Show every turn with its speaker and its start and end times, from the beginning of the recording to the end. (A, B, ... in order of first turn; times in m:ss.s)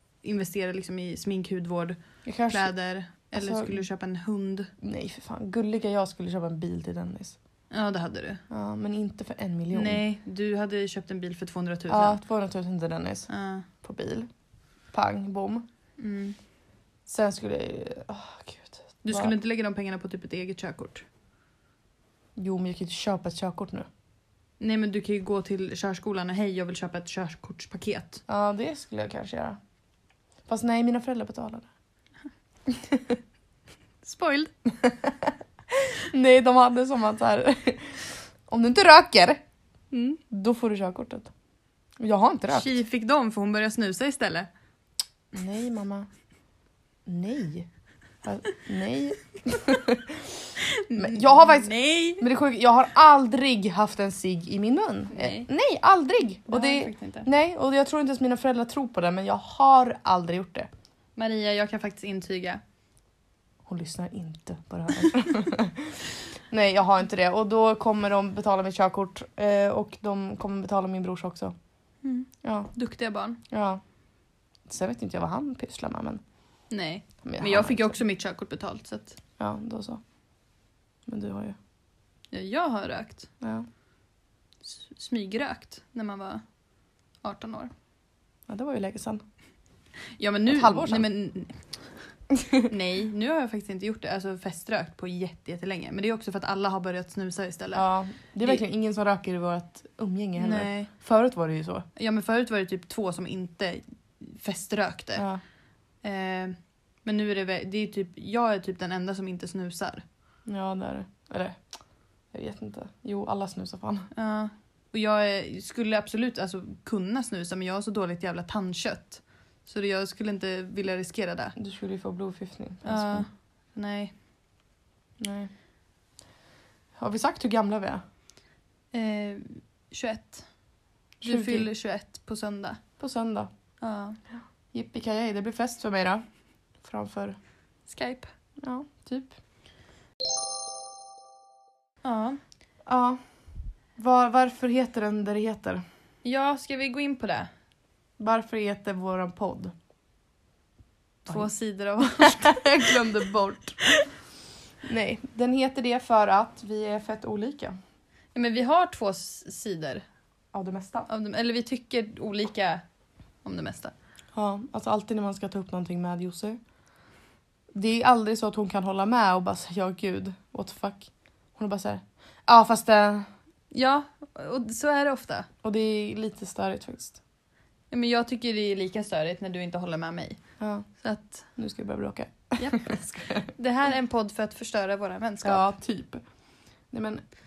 0:00.2-0:04.7 A
0:02.2-0:02.7 B
0:03.3-0:03.8 B
0:04.8-0:07.4 B
0:07.7-0:08.4 A
0:08.5-0:10.0 B
0:09.7-0:12.2 A
0:11.9-0:13.3 B
0:13.3-0:13.7 A
0:13.8-0:14.3 B
0:14.9-0:15.7 B
0:16.0-0:16.4 A
0:17.1-0:19.3 B
0:19.0-0:21.0 A
0:22.4-0:23.9 B
0:24.6-0:28.2 A
0:28.3-0:29.6 B
0:30.5-0:31.7 B
0:32.7-0:33.2 B
0:34.0-0:34.5 A
0:34.8-0:39.4 B
0:39.9-0:40.2 A
0:40.3-0:41.3 B
0:42.0-0:42.8 B
0:42.5-0:44.5 A
0:45.3-0:46.1 B
0:47.1-0:47.7 B
0:48.2-0:50.4 B
0:50.6-0:52.2 A
0:50.9-1:00.7 B
0:55.1-0:55.5 A
0:56.5-0:57.3 A
1:01.2-1:02.6 A
1:03.7-1:11.6 B
1:12.0-1:13.4 A
1:12.4-1:12.7 B
1:13.5-1:13.8 B
1:14.7-1:16.2 B
1:16.7-1:19.2 A
1:17.2-1:18.0 B
1:19.4-1:20.0 B
1:21.1-1:21.6 B
1:22.3-1:23.3 A
1:23.4-1:23.7 B
1:24.6-1:26.4 A
1:27.2-1:27.7 A
1:28.5-1:29.2 B
1:30.2-1:31.8 A
1:30.5-1:31.1 B
1:32.7-1:37.8 A
1:37.7-1:41.9 B
1:40.4-1:40.9 A
1:42.0-1:45.2 A
1:45.2-1:45.4 B
1:46.0-1:50.0 A
1:50.5-1:51.6 B
1:52.3-1:54.1 B
1:54.1-2:01.6 A
2:01.6-2:03.3 B
2:02.8-2:04.1 A
2:05.2-2:05.5 B
2:07.0-2:08.0 B
2:08.9-2:10.4 A
2:11.2-2:11.7 B
2:11.2-2:12.8 A
2:13.0-2:13.5 B
2:13.8-2:14.2 A
2:14.4-2:16.2 B
2:16.8-2:17.4 B
2:17.9-2:18.3 A
2:18.6-2:19.4 B
2:22.0-2:22.4 A
2:22.9-2:23.2 B
2:24.0-2:25.8 B
2:26.2-2:27.5 A
2:28.2-2:29.7 B
2:31.2-2:33.0 A
2:31.3-2:33.8 B
2:34.8-2:37.8 B
2:38.3-2:40.0 A
2:40.5-2:41.1 B
2:41.1-2:42.8 A
2:43.4-2:43.9 A
2:44.4-2:46.6 B
2:47.7-2:53.3 B
2:53.7-2:55.5 A
2:55.6-2:57.2 B
2:57.9-3:00.4 A
3:00.6-3:00.9 B
3:01.0-3:01.4 A
3:01.6-3:03.5 B
3:02.6-3:05.6 A
3:05.4-3:06.2 B
3:06.9-3:07.2 B